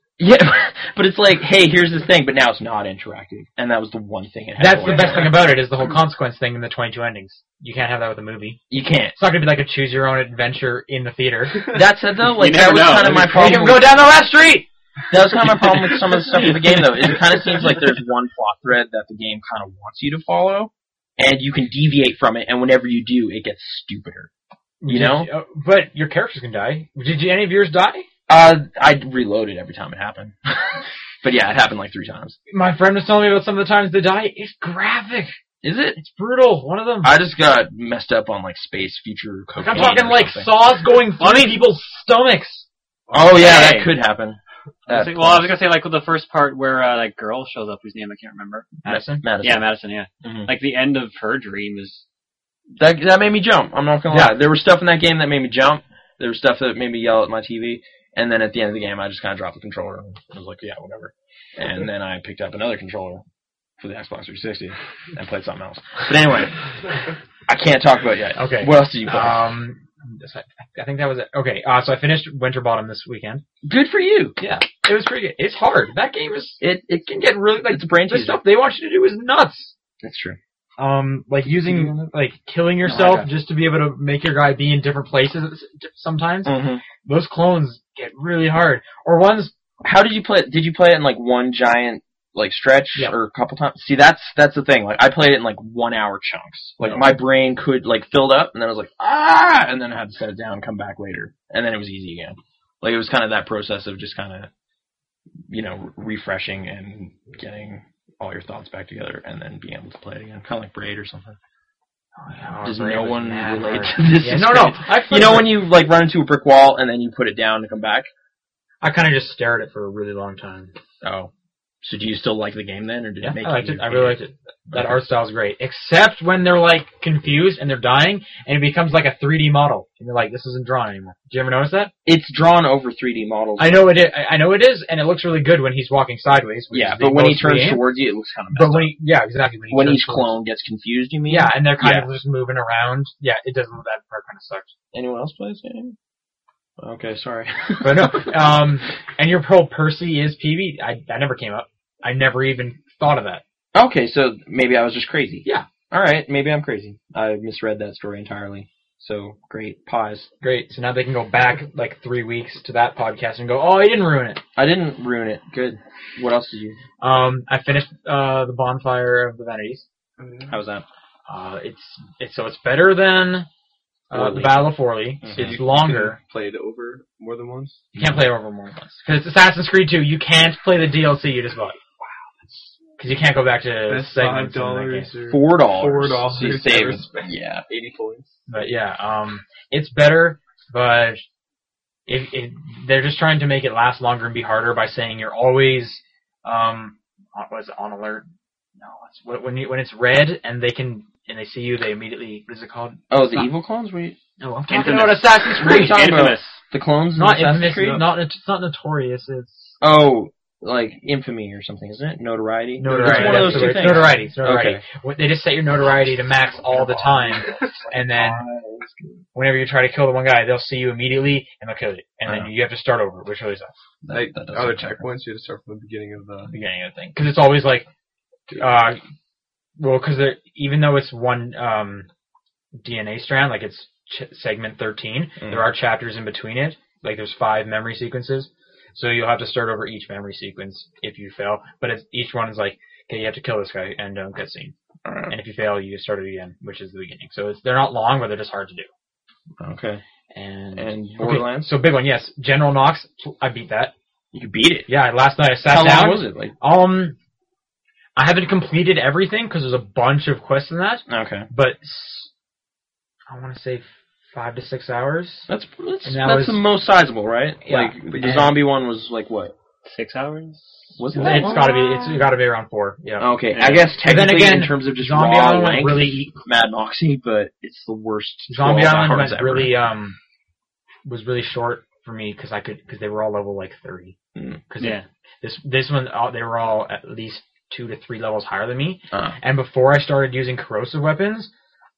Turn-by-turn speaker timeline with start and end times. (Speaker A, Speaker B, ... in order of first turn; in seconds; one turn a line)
Speaker A: 0.2-5.4
Speaker B: 4.6-8.6
Speaker A: 8.7-9.2
Speaker B: 9.2-11.7
Speaker A: 11.7-13.9
Speaker C: 12.2-13.4
Speaker B: 13.2-14.7
Speaker A: 15.1-24.3
Speaker B: 24.8-28.1
Speaker A: 24.9-25.3
Speaker A: 28.3-32.4
Speaker B: 32.5-35.4
Speaker A: 35.6-36.0
Speaker B: 36.0-37.1
Speaker A: 37.0-40.5
Speaker B: 39.6-42.7
Speaker C: 41.2-41.7
Speaker A: 43.1-45.5
Speaker C: 43.3-43.9
Speaker C: 44.9-48.7
Speaker B: 48.8-49.2
Speaker A: 48.9-49.7
Speaker C: 49.4-52.0
Speaker A: 50.2-50.5
Speaker A: 52.8-63.2
Speaker B: 54.1-54.4
Speaker A: 63.8-66.6
Speaker A: 67.5-69.4
Speaker B: 68.4-73.4
Speaker A: 73.6-74.4
Speaker B: 74.4-79.8
Speaker A: 76.6-78.4
Speaker A: 80.0-80.4
Speaker B: 80.8-89.5
Speaker A: 81.7-82.0
Speaker A: 82.9-83.3
Speaker A: 86.5-86.8
Speaker A: 89.8-104.5
Speaker B: 96.8-97.1
Speaker A: 105.5-111.4
Speaker B: 112.2-115.6
Speaker A: 112.6-118.1
Speaker B: 118.8-120.7
Speaker A: 121.0-121.3
Speaker A: 121.8-124.2
Speaker B: 123.2-131.9
Speaker A: 124.7-125.0
Speaker A: 132.1-133.9
Speaker B: 133.6-137.8
Speaker A: 136.7-138.9
Speaker B: 138.5-140.4
Speaker A: 139.7-142.1
Speaker B: 141.3-144.7
Speaker A: 144.9-146.0
Speaker A: 146.8-148.4
Speaker B: 147.8-153.4
Speaker A: 153.7-160.3
Speaker B: 160.4-164.4
Speaker A: 164.6-166.8
Speaker B: 167.0-169.8
Speaker D: 170.2-170.6
Speaker A: 170.5-170.8
Speaker B: 171.3-173.5
Speaker B: 174.1-176.2
Speaker A: 174.1-175.6
Speaker D: 175.4-177.8
Speaker A: 177.9-178.2
Speaker B: 177.9-181.8
Speaker B: 183.0-185.1
Speaker D: 183.9-188.4
Speaker A: 185.3-187.6
Speaker B: 188.5-191.2
Speaker B: 192.1-198.3
Speaker B: 198.8-203.5
Speaker A: 203.1-204.2
Speaker B: 204.4-206.0
Speaker C: 204.7-206.6
Speaker A: 204.8-208.1
Speaker B: 207.2-209.8
Speaker A: 209.8-214.8
Speaker B: 212.8-218.4
Speaker D: 212.9-214.0
Speaker A: 216.6-219.2
Speaker B: 219.3-223.8
Speaker A: 222.3-222.5
Speaker A: 224.0-225.0
Speaker D: 224.1-226.5
Speaker A: 226.5-227.2
Speaker B: 227.1-227.9
Speaker B: 228.6-229.0
Speaker B: 229.8-232.1
Speaker B: 232.8-244.7
Speaker A: 235.4-235.7
Speaker A: 245.1-245.3
Speaker B: 245.3-248.9
Speaker A: 249.6-250.0
Speaker B: 250.3-253.9
Speaker A: 250.8-251.7
Speaker A: 254.3-254.9
Speaker B: 254.9-257.1
Speaker A: 255.7-256.5
Speaker B: 258.2-262.3
Speaker A: 261.1-261.5
Speaker B: 263.3-265.5
Speaker A: 265.5-269.5
Speaker B: 266.1-266.7
Speaker B: 267.6-268.6
Speaker C: 269.8-271.0
Speaker A: 271.0-272.1
Speaker B: 271.1-273.3
Speaker A: 273.2-279.7
Speaker C: 273.5-273.9
Speaker B: 274.0-276.3
Speaker B: 278.5-280.2
Speaker B: 281.1-284.2
Speaker A: 284.4-284.6
Speaker B: 284.7-291.5
Speaker A: 289.1-289.4